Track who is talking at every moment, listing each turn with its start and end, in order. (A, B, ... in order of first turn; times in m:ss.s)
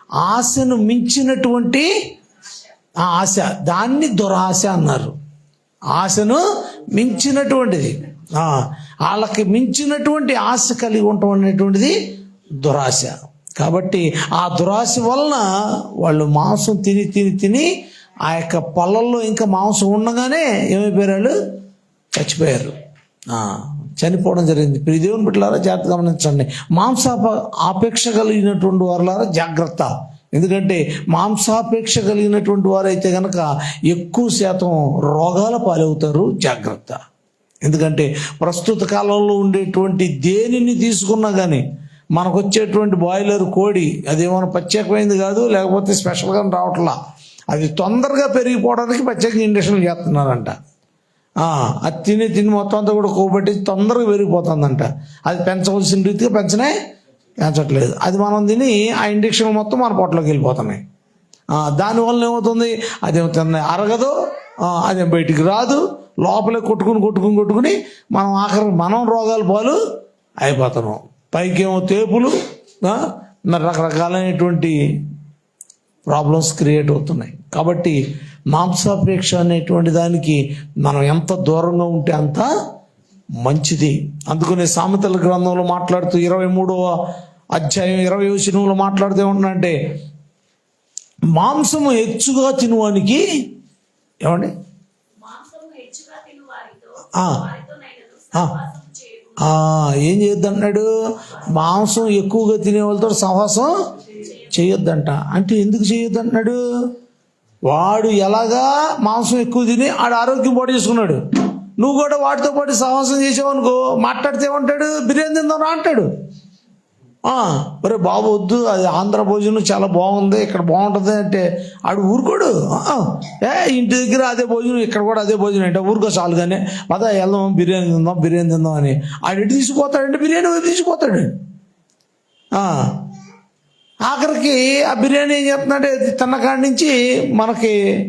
0:00.2-0:01.9 A
0:02.3-0:02.8 B
0:03.0-0:05.1 A
0:05.9-0:06.4 A
0:06.9-0:11.9 A
0:12.6-0:15.5 A
0:16.0-0:17.7 A
0:18.2-0:21.3 A
0:22.2-0:22.8 A
0:23.3-0:37.0 A
0:37.6-0:41.6 A
0:42.1-0:46.9 A
0:47.5-0:50.5 A
0:51.4-0:56.7 A
0:57.4-1:00.8 A
1:01.5-1:09.8 A
1:10.4-1:12.3 A
1:12.8-1:14.8 A
1:16.1-1:18.0 A
1:18.5-1:22.5 A
1:23.4-1:26.8 A
1:27.5-1:29.7 A
1:31.3-1:33.2 A
1:34.2-1:34.5 A
1:35.2-1:39.6 B
1:39.4-1:40.9 A
1:41.5-1:43.7 A
1:41.6-1:42.0 B
1:44.1-1:44.7 B
1:44.5-1:46.6 A
1:47.6-1:51.2 A
1:51.8-1:56.1 A
1:57.2-2:11.3 A
2:12.5-2:12.9 A
2:14.0-2:17.8 A